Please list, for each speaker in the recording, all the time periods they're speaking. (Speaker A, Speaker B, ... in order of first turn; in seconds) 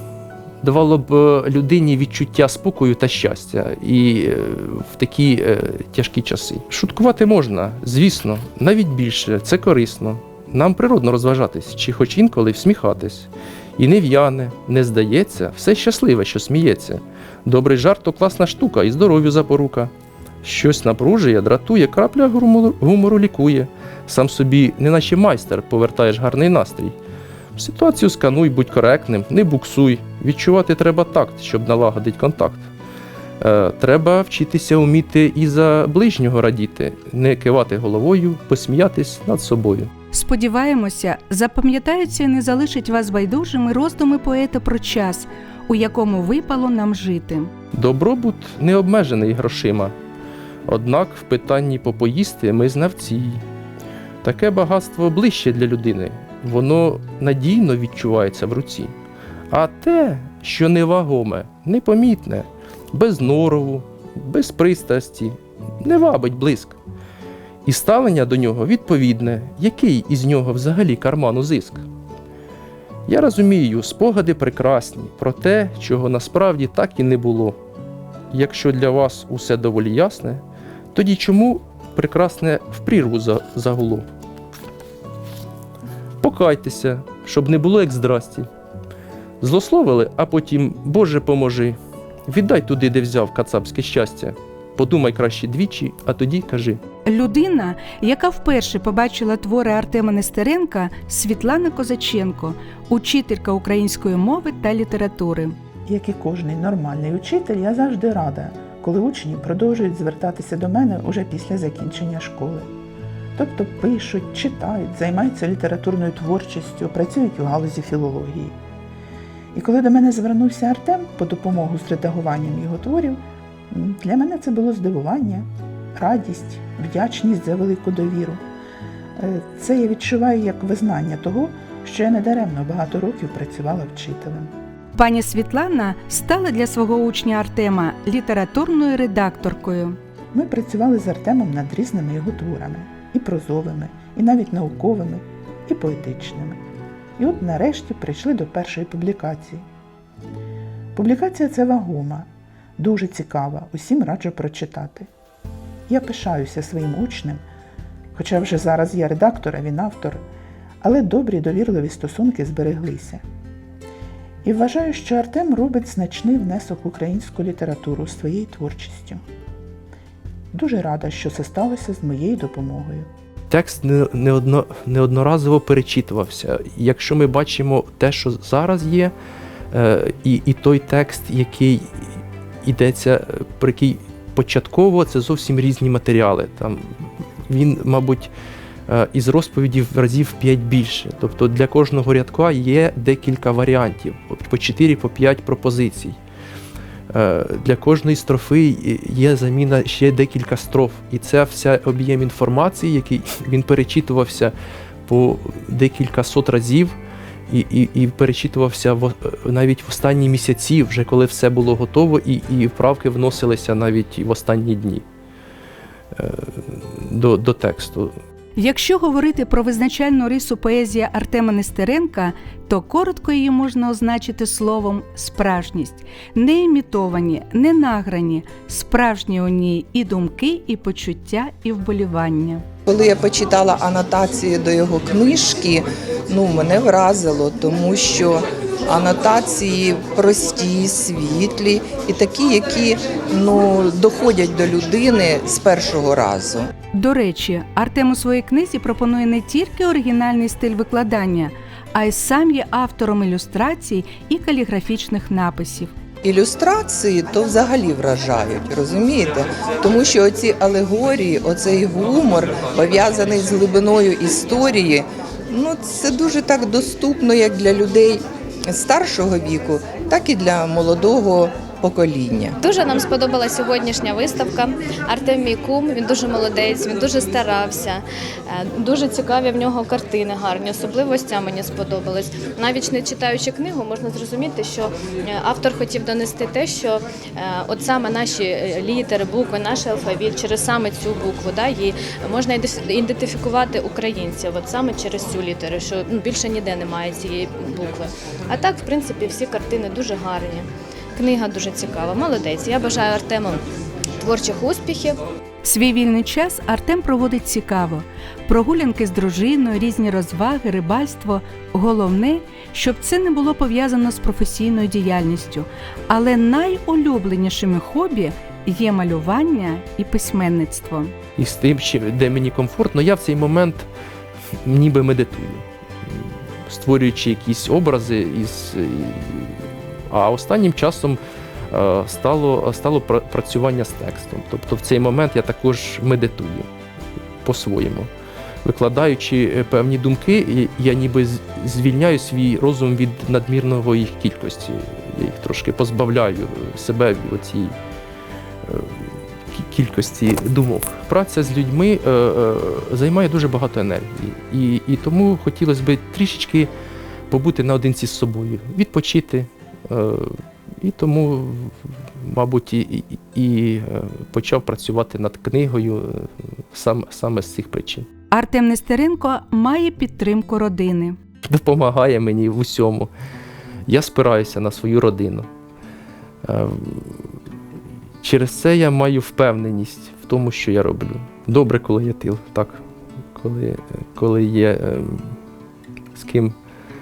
Speaker A: 0.6-19.9, 20.4-27.0, 27.6-32.7, 33.4-39.9, 47.7-49.9, 50.7-53.4, 54.2-58.9, 59.5-66.8, 67.7-71.8, 73.1-77.6, 78.3-80.4, 80.9-84.1, 86.2-88.5, 89.4-96.8, 173.5-179.1, 179.7-188.3, 188.9-196.2, 197.1-204.5, 205.1-207.0, 207.5-215.0, 216.1-218.2, 321.4-323.9, 324.6-331.2, 331.7-336.7, 337.4-338.1, 338.6-347.8, 348.7-356.7, 357.3-368.1, 371.5-373.1, 373.9-375.5, 376.4-377.3, 378.2-382.8, 383.3-385.4, 386.1-386.6
Speaker B: 40.1-47.5, 97.1-105.5, 135.0-140.0, 218.6-232.6, 246.9-255.9, 305.6-321.1, 368.3-371.2
Speaker C: 105.9-112.7, 113.4-118.6, 119.5-128.4, 129.2-134.5, 140.3-146.6, 147.2-149.7, 150.9-155.1, 155.9-157.4, 158.2-160.2, 160.8-163.2, 164.4-169.2, 170.5-173.1
Speaker D: 232.9-246.7, 256.2-272.6
Speaker E: 272.6-303.6, 304.2-305.2